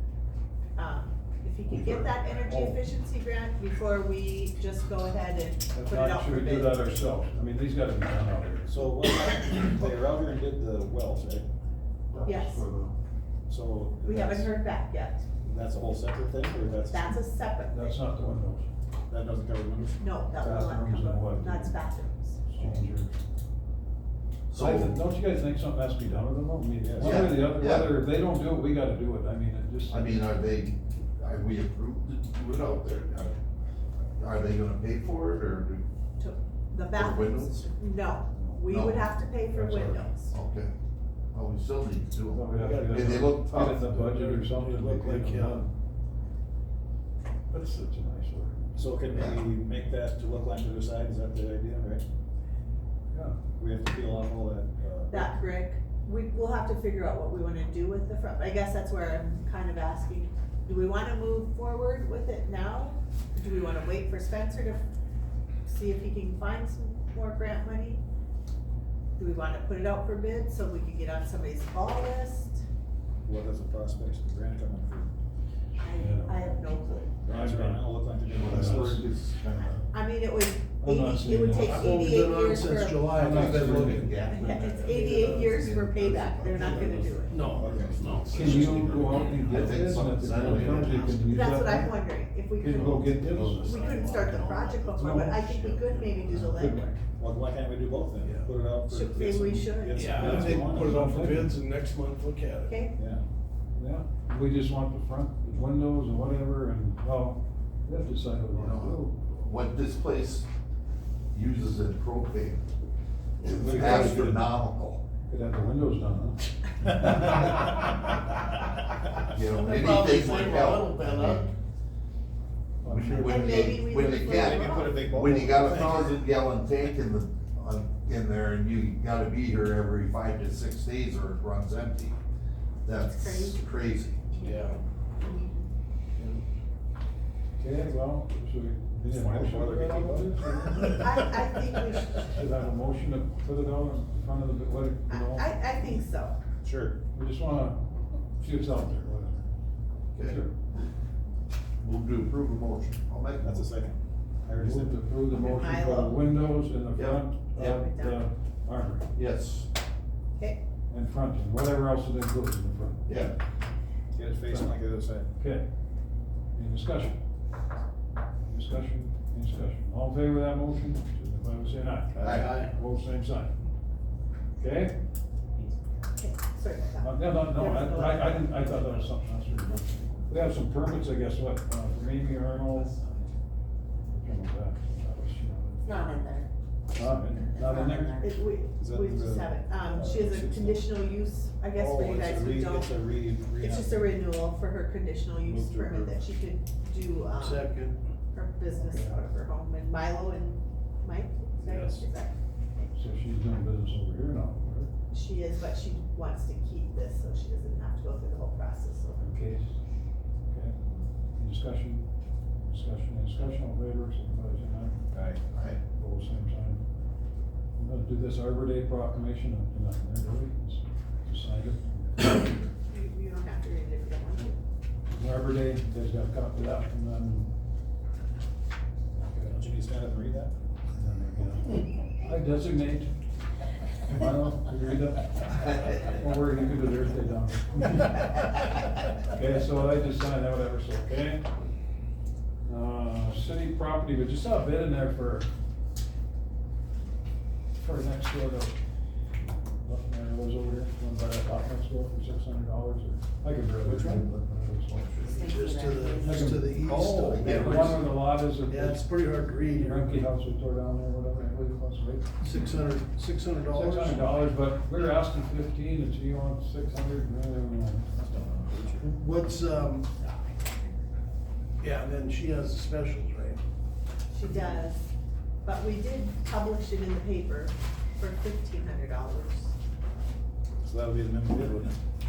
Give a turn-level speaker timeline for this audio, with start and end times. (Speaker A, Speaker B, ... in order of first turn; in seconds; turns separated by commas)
Speaker A: 0.8-6.8, Speaker B: 1.7-2.8, Speaker B: 5.7-8.7, Speaker C: 8.7-11.5, Speaker B: 12.1-12.9, Speaker A: 12.2-12.6, Speaker C: 13.5-14.5, Speaker A: 14.0-15.3, Speaker C: 15.4-17.1, Speaker A: 16.9-18.0, Speaker B: 17.7-18.7, Speaker C: 19.1-20.0, Speaker A: 20.0-22.4, Speaker B: 20.4-21.8, Speaker B: 22.5-23.1, Speaker C: 22.6-22.9, Speaker D: 24.5-25.1, Speaker B: 24.6-30.2, Speaker C: 26.8-27.3, Speaker D: 27.0-27.9, Speaker D: 29.9-33.4, Speaker D: 34.2-35.8, Speaker A: 36.2-40.3, Speaker D: 36.9-37.6, Speaker B: 38.4-40.1, Speaker D: 38.7-39.1, Speaker D: 40.3-40.7, Speaker D: 41.3-44.0, Speaker B: 42.3-45.7, Speaker E: 42.5-45.7, Speaker B: 47.5-48.8, Speaker C: 48.8-52.1, Speaker D: 49.1-49.4, Speaker B: 53.1-53.4, Speaker C: 53.6-55.3, Speaker A: 55.1-64.8, Speaker A: 65.7-68.0, Speaker A: 69.2-72.7, Speaker C: 73.2-75.1, Speaker A: 75.8-77.2, Speaker B: 76.0-78.9, Speaker C: 77.2-79.0, Speaker D: 78.3-79.8, Speaker A: 79.7-83.3, Speaker B: 80.8-82.0, Speaker E: 81.5-89.7, Speaker B: 83.1-84.2, Speaker D: 83.2-84.5, Speaker A: 84.3-87.5, Speaker D: 85.5-87.2, Speaker C: 87.5-88.1, Speaker B: 88.3-92.0, Speaker D: 88.4-91.2, Speaker E: 90.3-91.5, Speaker A: 91.3-97.0, Speaker B: 92.6-94.3, Speaker E: 92.8-96.3, Speaker B: 95.0-95.5, Speaker B: 96.3-96.9, Speaker C: 97.2-101.1, Speaker E: 98.2-98.5, Speaker A: 98.9-100.5, Speaker E: 99.9-102.9, Speaker B: 100.2-101.6, Speaker A: 102.7-102.9, Speaker C: 102.9-103.2, Speaker B: 103.7-109.1, Speaker D: 108.5-110.5, Speaker D: 111.3-112.7, Speaker D: 113.4-115.0, Speaker B: 113.4-114.5, Speaker B: 115.3-117.4, Speaker D: 119.3-121.5, Speaker E: 119.5-121.5, Speaker B: 122.8-123.7, Speaker D: 122.8-132.2, Speaker A: 123.2-125.0, Speaker C: 124.0-126.2, Speaker D: 132.8-134.3, Speaker A: 133.0-133.7, Speaker F: 134.3-135.7, Speaker E: 134.4-134.8, Speaker E: 136.2-136.4, Speaker B: 137.6-140.9, Speaker C: 139.0-140.9, Speaker A: 140.4-142.2, Speaker B: 142.1-145.6, Speaker A: 145.1-146.4, Speaker C: 146.6-146.9, Speaker B: 147.1-149.4, Speaker D: 150.1-150.4, Speaker B: 150.2-150.5, Speaker D: 151.8-153.7, Speaker C: 153.4-155.0, Speaker B: 154.5-159.1, Speaker A: 155.3-156.2, Speaker D: 156.9-157.2, Speaker A: 157.5-158.2, Speaker D: 159.1-159.7, Speaker B: 160.9-163.1, Speaker D: 163.1-163.3, Speaker C: 164.1-165.3, Speaker B: 165.4-165.7, Speaker B: 166.5-167.2, Speaker B: 168.5-173.5, Speaker D: 172.2-172.6, Speaker E: 172.3-172.7, Speaker B: 174.6-174.9, Speaker A: 176.1-178.6, Speaker B: 177.0-183.0, Speaker F: 183.0-183.2, Speaker B: 184.1-186.1, Speaker F: 185.8-186.5, Speaker B: 186.9-188.2, Speaker C: 187.0-187.4, Speaker F: 187.4-188.4, Speaker A: 188.2-193.0, Speaker C: 188.8-190.8, Speaker C: 191.7-194.1, Speaker A: 193.6-197.7, Speaker C: 195.4-196.2, Speaker E: 197.3-198.0, Speaker A: 198.3-202.9, Speaker B: 198.8-199.2, Speaker E: 201.6-202.1, Speaker B: 202.9-204.9, Speaker A: 205.1-209.2, Speaker B: 209.2-209.7, Speaker B: 210.5-210.8, Speaker B: 211.4-212.1, Speaker B: 212.6-215.0, Speaker C: 215.1-215.4, Speaker D: 215.5-215.8, Speaker B: 215.9-216.8, Speaker B: 217.8-222.6, Speaker A: 222.9-224.6, Speaker B: 225.1-227.5, Speaker B: 229.2-229.6, Speaker C: 229.4-230.5, Speaker B: 230.9-233.1, Speaker B: 234.0-238.5, Speaker B: 239.2-241.5, Speaker B: 242.7-245.5, Speaker B: 247.8-248.8, Speaker B: 249.5-255.4, Speaker C: 253.8-254.3, Speaker E: 255.2-260.3, Speaker F: 255.2-256.5, Speaker B: 256.2-256.7, Speaker C: 256.9-257.9, Speaker B: 257.3-259.1, Speaker B: 259.7-262.7, Speaker E: 262.4-264.4, Speaker B: 263.7-268.1, Speaker C: 268.1-269.1, Speaker E: 269.0-270.1, Speaker A: 270.2-270.9, Speaker E: 271.8-273.6, Speaker A: 274.3-275.1, Speaker A: 275.6-279.7, Speaker C: 280.8-282.0